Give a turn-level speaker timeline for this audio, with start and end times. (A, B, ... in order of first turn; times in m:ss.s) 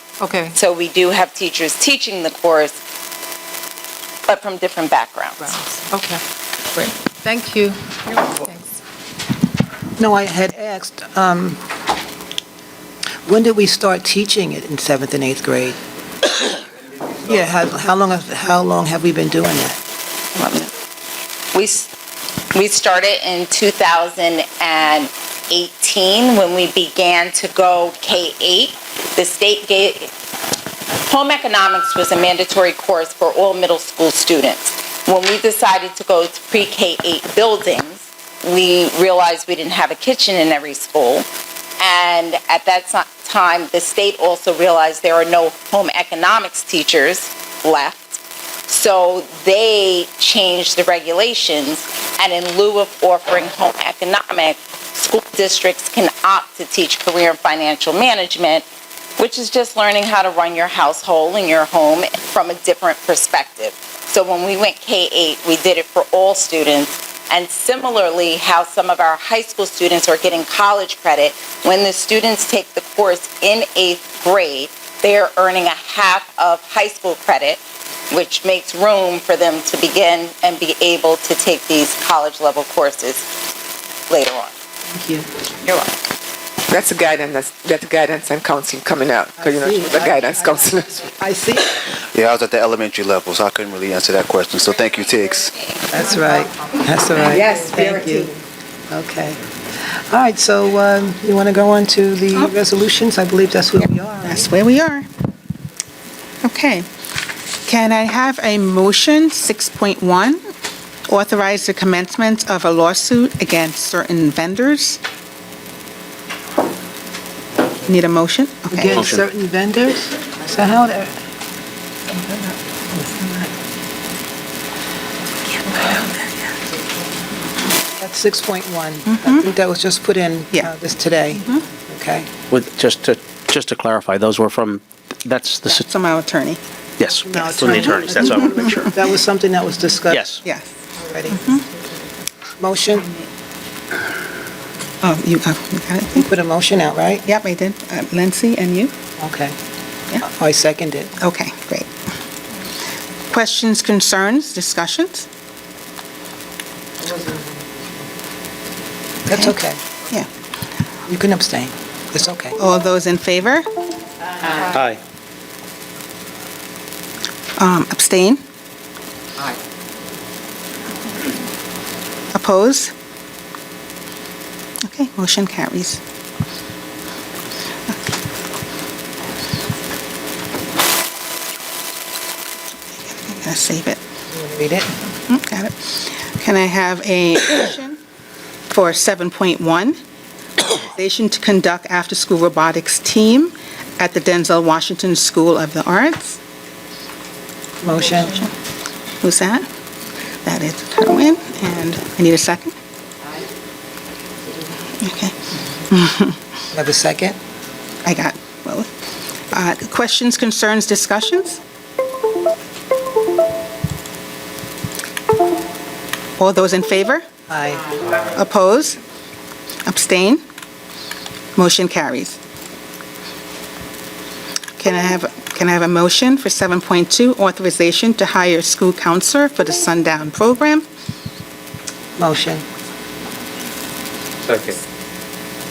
0:00.2-0:00.5 A
0:00.5-0:02.8 B
0:04.3-0:05.6 B
0:05.4-0:06.0 A
0:05.9-0:06.2 C
0:06.7-0:08.6 A
0:10.0-0:11.6 D
0:13.2-0:15.8 D
0:17.2-0:19.8 D
0:20.3-0:20.7 B
0:21.5-0:21.9 B
0:22.5-0:30.1 B
0:31.0-0:41.2 B
0:41.8-0:58.6 B
0:59.2-1:17.6 B
1:18.1-1:23.3 B
1:24.1-1:24.5 B
1:26.7-1:31.0 C
1:29.4-1:31.9 D
1:32.1-1:35.5 E
1:35.9-1:39.4 D
1:37.2-1:37.9 C
1:37.6-1:37.8 B
1:40.1-1:44.5 D
1:44.2-1:45.1 F
1:46.4-1:46.9 F
1:47.6-1:50.4 F
1:51.1-1:55.0 F
1:57.8-1:59.0 F
1:58.7-2:01.1 D
1:58.9-1:59.2 G
2:02.1-2:03.4 F
2:05.6-2:06.2 F
2:08.0-2:12.3 D
2:09.1-2:09.4 F
2:11.4-2:11.6 F
2:12.5-2:15.9 G
2:15.6-2:16.6 F
2:17.0-2:18.9 G
2:17.2-2:20.2 D
2:20.1-2:20.4 G
2:20.4-2:20.7 F
2:21.0-2:21.5 D
2:21.3-2:21.6 F
2:22.6-2:23.1 D
2:25.0-2:26.3 F
2:26.1-2:27.2 D
2:27.2-2:28.9 F
2:29.2-2:29.6 D
2:30.2-2:31.2 D
2:31.2-2:31.9 F
2:33.3-2:35.3 F
2:37.1-2:37.4 D
2:39.2-2:39.8 D
2:41.1-2:42.6 D
2:42.6-2:43.6 F
2:44.5-2:44.7 C
2:44.7-2:45.0 G
2:47.6-2:48.4 F
2:52.3-2:52.9 F
2:54.8-2:56.0 F
3:02.9-3:04.0 F
3:04.3-3:04.9 D
3:05.3-3:08.0 F
3:08.7-3:10.0 F
3:10.7-3:16.4 F
3:17.8-3:18.4 D
3:19.2-3:19.6 F
3:20.4-3:22.7 F
3:25.0-3:26.4 F
3:26.7-3:27.4 D
3:28.0-3:28.9 F
3:29.5-3:31.6 F
3:36.4-3:37.2 F
3:37.5-3:38.0 D
3:38.3-3:39.0 F
3:39.8-3:40.4 F
3:41.6-3:42.4 F
3:44.8-3:50.8 F
3:52.2-3:52.6 D